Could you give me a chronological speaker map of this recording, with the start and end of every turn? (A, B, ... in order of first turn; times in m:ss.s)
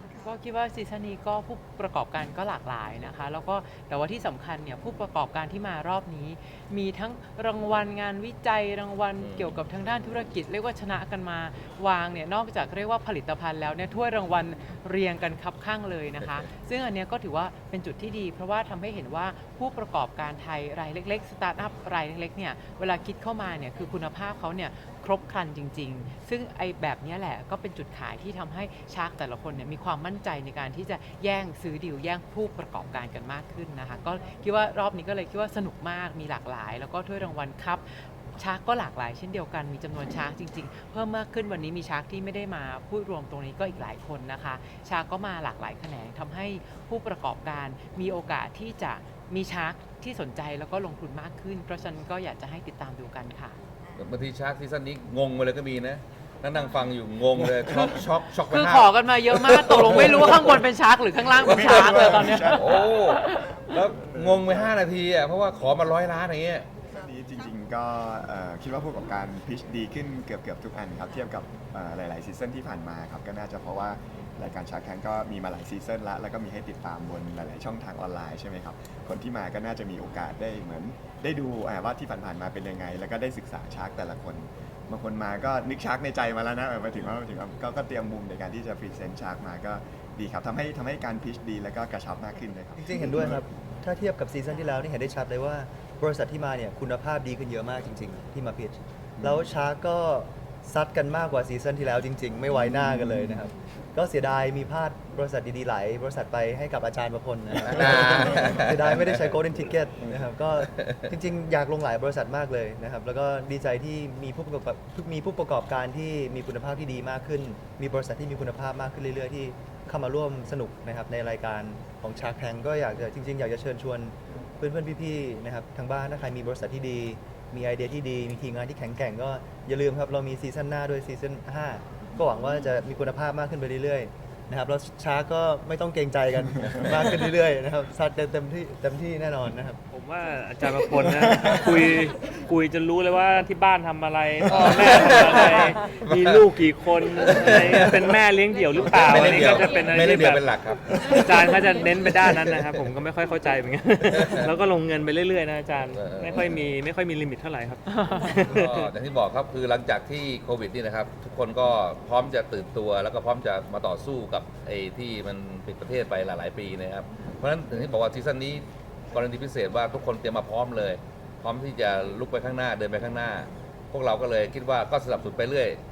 0:00.2-0:53.6 A
0:09.2-0:09.5 B
0:54.0-1:00.5 B
0:57.6-1:03.5 A
0:59.8-1:00.4 C
1:01.4-1:02.9 C
1:01.5-1:02.0 B
1:02.6-1:06.7 B
1:04.1-1:04.7 C
1:06.9-1:33.4 C
1:32.8-2:19.8 D
1:39.2-1:39.5 C
1:42.6-1:43.3 C
1:47.6-1:49.4 B
1:47.8-1:48.5 C
1:50.8-1:51.1 B
2:19.9-2:30.5 E
2:21.3-2:21.8 C
2:24.8-2:25.5 B
2:26.0-2:26.4 B
2:27.2-2:28.1 B
2:28.8-2:31.0 B
2:30.9-2:31.6 C
2:31.1-2:38.9 E
2:32.3-2:32.7 B
2:34.1-2:34.5 B
2:35.9-2:36.6 B
2:37.9-2:38.4 A
2:38.5-2:55.8 B